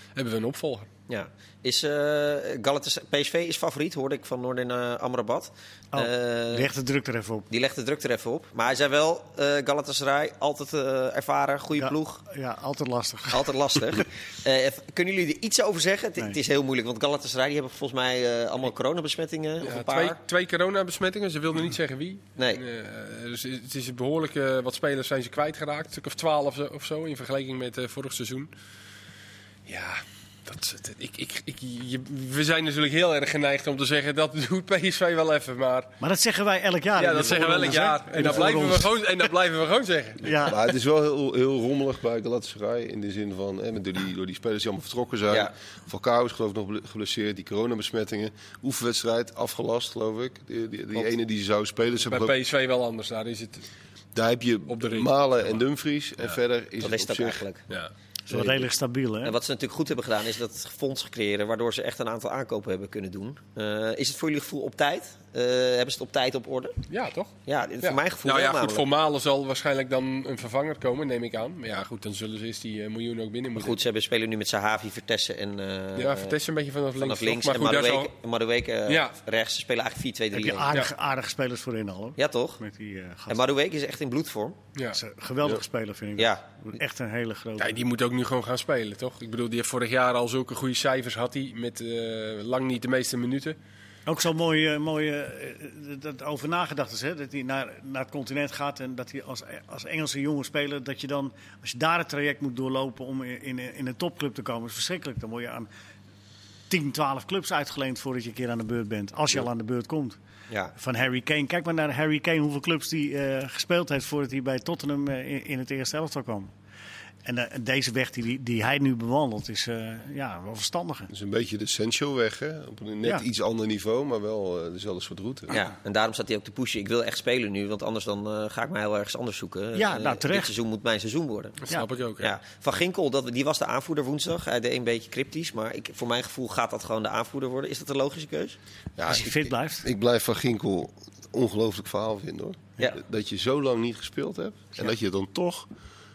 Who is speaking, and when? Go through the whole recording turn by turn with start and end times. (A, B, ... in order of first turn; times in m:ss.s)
0:00.2-0:00.9 A
0:01.1-0:06.7 B
0:05.9-0:07.5 C
0:07.5-0:12.2 B
0:11.8-0:13.6 C
0:13.3-0:20.2 B
0:19.6-0:28.5 A
0:29.7-0:35.9 A
0:36.0-0:38.9 C
0:37.0-0:40.4 A
0:40.2-0:40.6 C
0:40.4-0:52.4 D
0:52.1-0:53.7 A
0:54.2-0:57.5 D
0:54.7-0:55.6 A
0:56.8-0:57.6 B
0:58.3-0:59.4 C
0:58.3-0:58.7 D
0:59.2-1:06.8 B
1:06.9-1:13.8 A
1:07.5-1:08.9 B
1:13.6-1:16.4 B
1:16.0-1:18.1 A
1:17.0-1:20.7 B
1:18.9-1:19.2 A
1:20.3-1:23.4 C
1:22.2-1:22.6 B
1:23.3-1:24.6 B
1:24.9-1:27.8 C
1:26.2-1:26.4 B
1:27.6-1:33.6 A
1:34.1-1:45.7 C
1:46.7-1:50.2 C
1:50.8-1:56.5 C
1:57.2-2:01.1 C
2:01.1-2:05.6 D
2:05.5-2:11.6 B
2:09.7-2:10.6 C
2:11.6-2:12.4 A
2:12.2-2:18.6 B
2:19.0-2:25.7 D
2:19.0-2:19.9 C